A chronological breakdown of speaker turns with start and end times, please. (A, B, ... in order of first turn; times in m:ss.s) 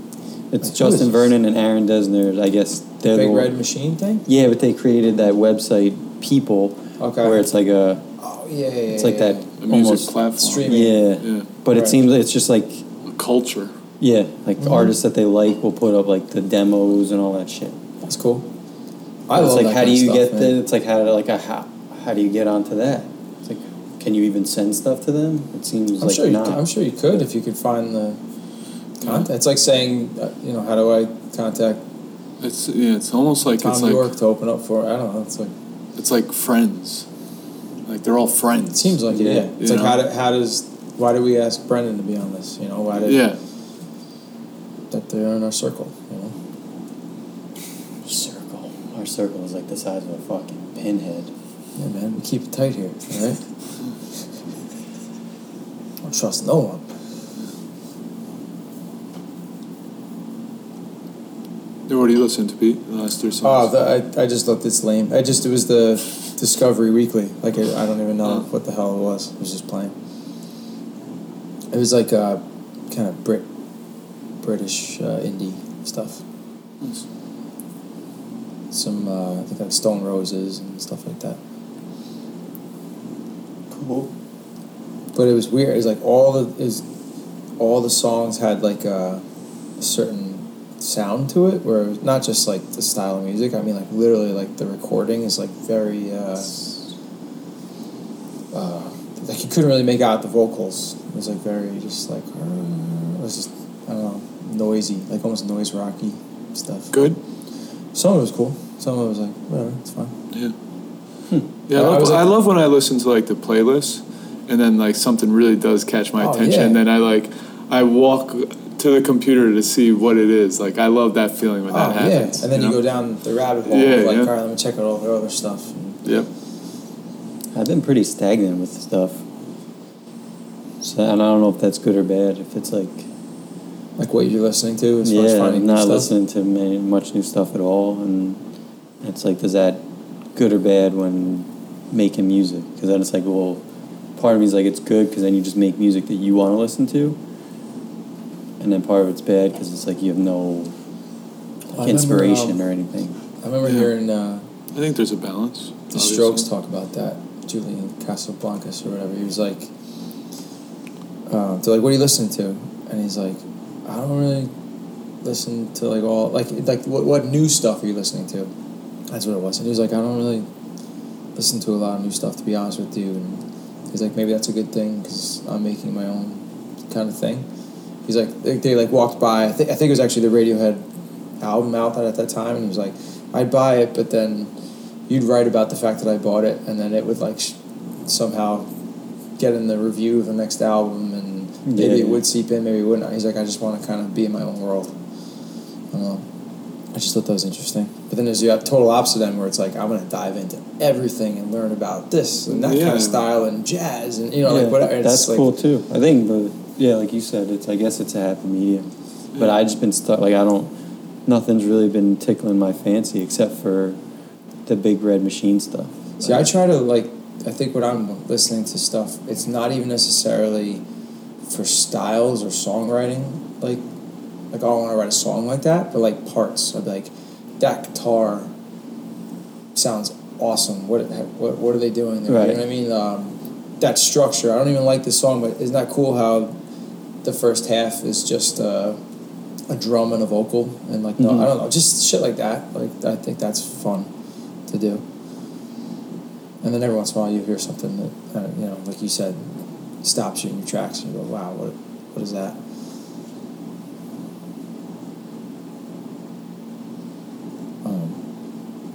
0:00.5-0:03.6 A
0:00.6-0:01.3 B
0:03.1-0:04.2 B
0:04.3-0:08.0 A
0:07.0-0:07.4 B
0:08.2-0:09.5 B
0:08.9-0:10.1 A
0:09.6-0:11.5 C
0:10.4-0:11.1 B
0:10.6-0:12.8 A
0:11.7-0:12.0 B
0:13.1-0:13.7 C
0:14.0-0:17.8 A
0:14.6-0:14.9 B
0:18.0-0:18.5 B
0:19.3-0:20.6 B
0:19.3-0:26.6 A
0:26.0-0:28.2 B
0:29.0-0:31.8 B
0:32.4-0:34.1 C
0:33.6-0:35.5 B
0:36.0-0:37.1 C
0:37.9-0:39.0 C
0:38.7-0:43.3 B
0:39.1-0:39.5 A
0:39.6-0:40.0 C
0:43.0-0:43.4 C
0:44.9-0:46.4 B
0:48.0-0:51.3 A
0:51.8-0:53.4 B
0:56.0-0:56.9 B
1:01.9-1:03.7 C
1:03.4-1:09.9 B
1:11.7-1:13.4 B
1:14.4-1:16.2 B
1:18.7-1:21.4 B
1:23.7-1:24.1 A
1:25.2-1:26.8 B
1:27.6-1:29.2 B
1:29.8-1:36.6 B
1:38.5-1:47.0 B
1:46.9-1:47.2 C
1:47.9-1:50.1 B
1:51.7-2:02.8 C
1:51.8-1:52.3 B
1:56.2-1:56.8 B
2:01.7-2:06.0 B
2:03.7-2:04.3 C
2:07.5-2:09.2 A
2:10.8-2:13.1 A
2:14.0-2:16.1 B
2:15.0-2:18.4 A
2:19.0-2:19.8 A
2:20.4-2:23.6 A
2:24.2-2:27.2 A
2:28.6-2:30.7 A
2:31.7-2:33.2 A
2:31.8-2:32.6 B
2:33.4-2:34.4 B
2:33.6-2:33.9 C
2:34.7-2:36.5 C
2:35.9-2:39.7 B
2:41.3-2:44.5 B
2:45.2-2:48.5 B
2:49.1-2:50.5 B
2:51.4-2:57.5 B
2:58.0-3:00.8 B
3:01.4-3:04.5 B
3:05.1-3:08.7 B
3:09.4-3:14.9 B
3:11.7-3:12.2 A
3:15.9-3:16.2 B
3:16.9-3:25.5 B
3:22.5-3:23.3 C
3:24.4-3:30.7 A
3:31.3-3:34.0 A
3:34.7-3:36.5 A
3:36.2-3:40.8 B
3:41.5-3:43.8 B
3:44.5-3:48.5 B
3:49.8-3:56.6 B
3:52.3-3:52.6 A
3:57.2-3:59.0 B
3:59.7-4:04.1 B
4:01.2-4:01.5 A
4:04.7-4:05.0 B
4:06.6-4:12.6 B
4:17.8-4:18.2 B